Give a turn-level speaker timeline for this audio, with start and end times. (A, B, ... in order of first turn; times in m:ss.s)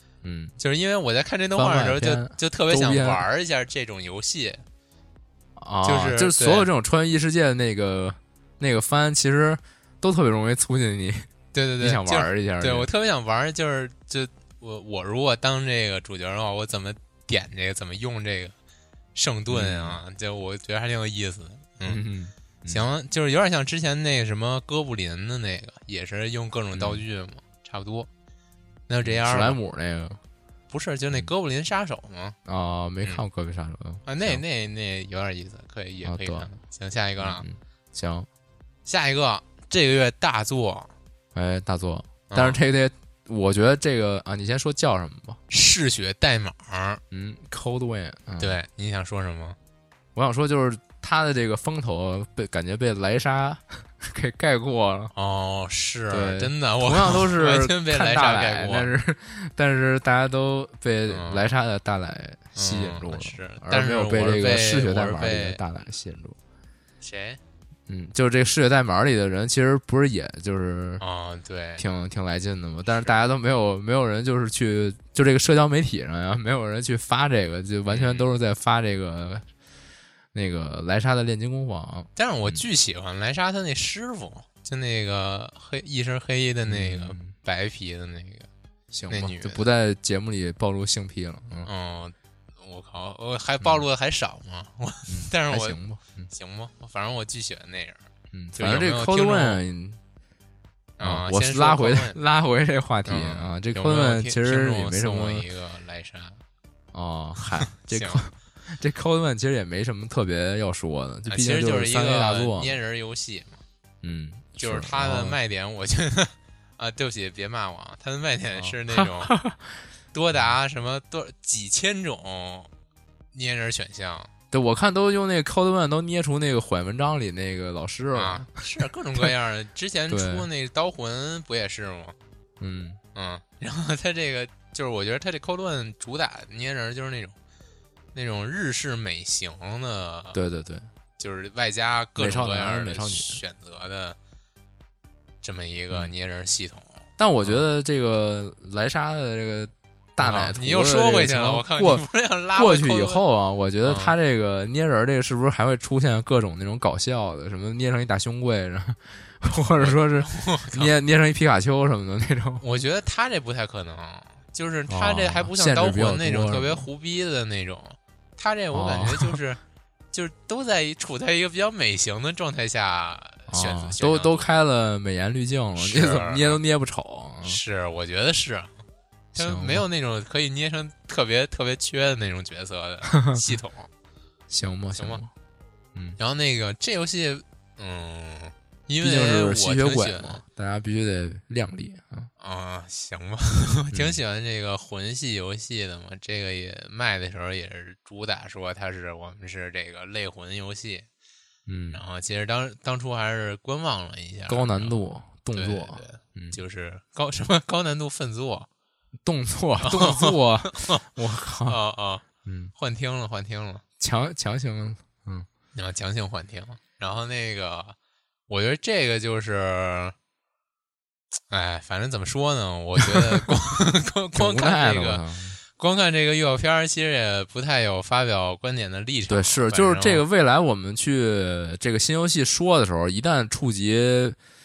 0:00.2-0:00.6 A
0:00.6-0:04.6 B
0:01.6-0:03.2 A
0:05.6-0:11.3 A
0:05.8-0:06.7 B
0:11.5-0:18.5 B
0:11.8-0:12.9 A
0:19.2-0:22.0 B
0:19.5-0:20.0 A
0:21.8-0:22.8 A
0:22.7-0:28.1 B
0:26.8-0:27.0 A
0:28.9-0:29.6 B
0:29.0-0:30.2 A
0:30.7-0:32.4 B
0:32.4-0:34.4 A
0:34.1-0:37.5 B
0:36.0-0:36.5 A
0:37.2-0:38.3 A
0:38.8-0:40.9 B
0:41.4-0:45.4 A
0:42.3-0:42.6 B
0:45.5-0:47.0 B
0:47.1-0:48.6 A
0:48.4-0:49.6 B
0:50.2-0:55.1 A
0:55.1-0:59.0 B
0:56.1-1:06.4 A
1:01.1-1:01.5 B
1:02.6-1:05.6 B
1:07.0-1:07.4 B
1:07.9-1:11.0 A
1:11.0-1:11.8 B
1:11.8-1:19.4 A
1:12.9-1:13.2 B
1:17.9-1:18.3 B
1:20.3-1:22.6 A
1:22.2-1:28.5 B
1:26.7-1:27.3 A
1:28.9-1:31.7 A
1:29.1-1:29.6 B
1:31.7-1:35.8 B
1:35.1-1:36.3 A
1:36.3-1:38.0 B
1:38.3-1:40.0 A
1:38.6-1:39.6 B
1:41.0-1:42.2 B
1:41.0-1:45.4 A
1:43.1-1:46.4 B
1:46.9-1:52.8 A
1:47.4-1:48.2 B
1:51.3-1:53.6 B
1:54.0-1:55.4 A
1:54.6-1:59.3 B
1:58.6-1:59.7 A
2:00.1-2:02.7 B
2:03.3-2:04.3 B
2:04.5-2:08.6 A
2:08.1-2:12.2 B
2:10.1-2:10.5 A
2:12.6-2:13.0 A
2:13.2-2:17.4 B
2:18.1-2:20.4 B
2:20.3-2:20.9 A
2:21.2-2:24.2 B
2:22.2-2:23.4 A
2:25.4-2:27.6 B
2:27.2-2:42.6 A
2:30.2-2:33.2 B
2:33.8-2:34.2 B
2:39.8-2:40.9 B
2:42.6-2:49.6 B
2:44.9-2:46.9 A
2:48.7-2:49.4 A
2:50.1-2:54.5 B
2:53.5-2:57.6 A
2:55.8-2:56.6 B
2:57.4-2:58.7 B
2:59.3-2:59.8 A
2:59.4-3:03.9 B
3:03.1-3:03.4 A
3:04.5-3:05.3 A
3:05.0-3:05.2 B
3:06.2-3:10.4 B
3:09.0-3:12.3 A
3:12.4-3:21.1 B
3:13.9-3:14.2 A
3:21.7-3:22.0 A
3:21.9-3:25.0 B
3:24.5-3:26.6 A
3:25.5-3:28.7 B
3:29.2-3:31.8 A
3:29.8-3:31.1 B
3:31.6-3:33.8 B
3:32.4-3:32.7 A
3:34.0-3:35.5 A
3:35.8-3:38.0 B
3:38.5-3:40.2 B
3:41.5-3:45.2 B
3:43.0-3:43.5 A
3:44.3-3:45.6 A
3:45.8-3:50.2 B
3:49.3-3:54.4 A